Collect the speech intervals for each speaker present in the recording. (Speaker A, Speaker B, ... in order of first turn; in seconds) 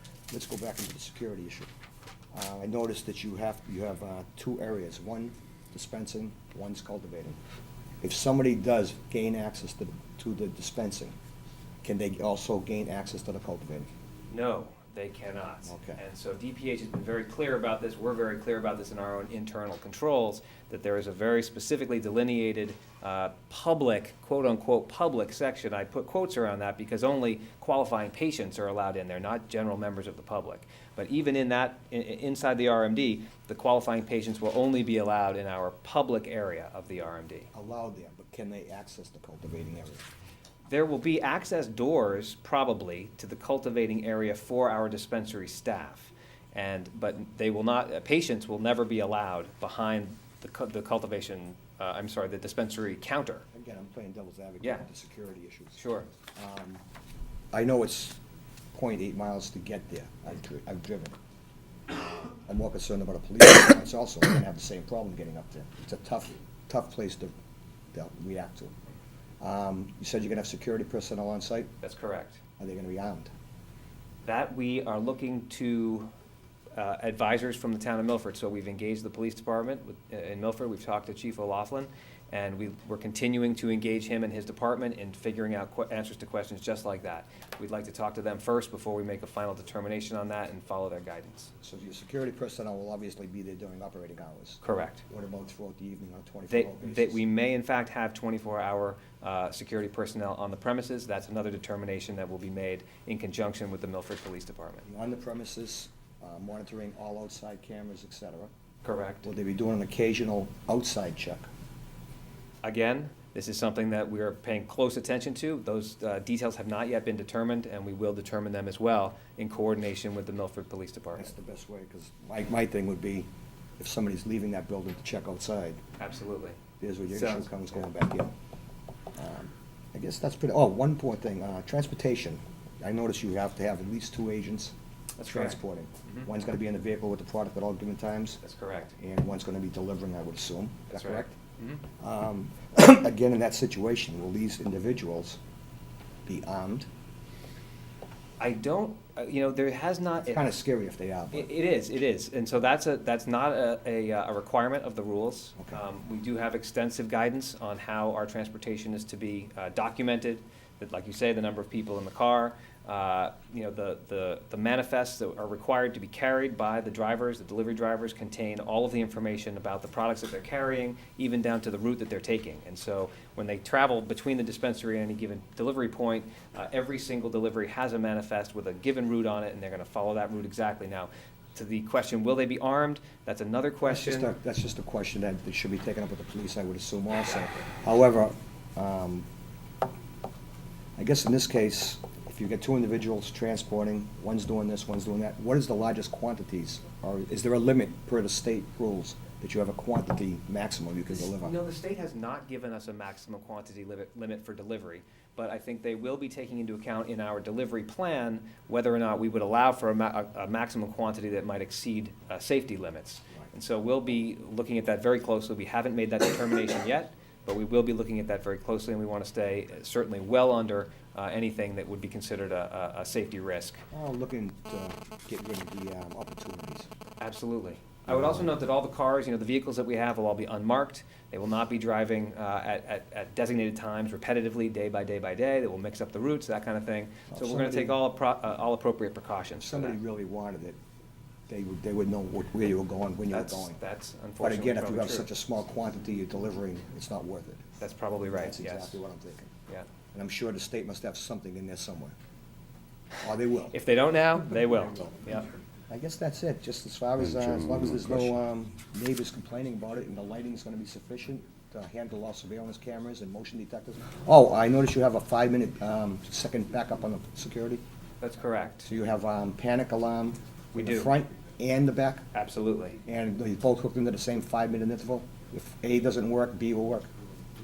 Speaker A: 0.3-1.7, 2.3-7.4, 8.0-11.2, 11.8-13.9, 15.7-16.0, 37.5-40.1, 53.5-56.8, 57.5-58.2, 58.7-61.2, 61.9-67.3, 67.9-68.7, 69.4-71.7, 72.6-73.3, 91.6-97.2, 104.9-108.5, 109.2-111.5, 121.2-123.3, 123.8-125.8, 126.8-128.3, 129.1-138.4, 139.0-141.3, 142.0-145.4, 146.3-146.9, 150.2-151.5, 183.9-189.3, 191.0-201.6, 223.9-226.9, 237.3-238.0, 239.6-240.8, 241.5-243.8, 244.4-247.6, 248.3-249.5, 250.1-252.2, 253.2-253.8, 255.9-267.8, 268.9-272.3, 273.1-277.1
Speaker B: 14.3-37.5, 40.7-53.5, 55.8-56.1, 71.8-72.4, 74.2-76.1, 76.8-91.5, 94.6-95.0, 96.5-104.9, 108.8-109.3, 112.6-121.3, 126.0-126.6, 127.1-127.5, 135.2-136.3, 138.4-139.0, 140.9-141.8, 148.4-150.5, 151.3-184.3, 201.1-223.8, 227.2-240.0, 243.3-245.3, 247.8-249.0, 253.7-255.5, 268.2-268.9, 270.7-271.1, 272.3-273.0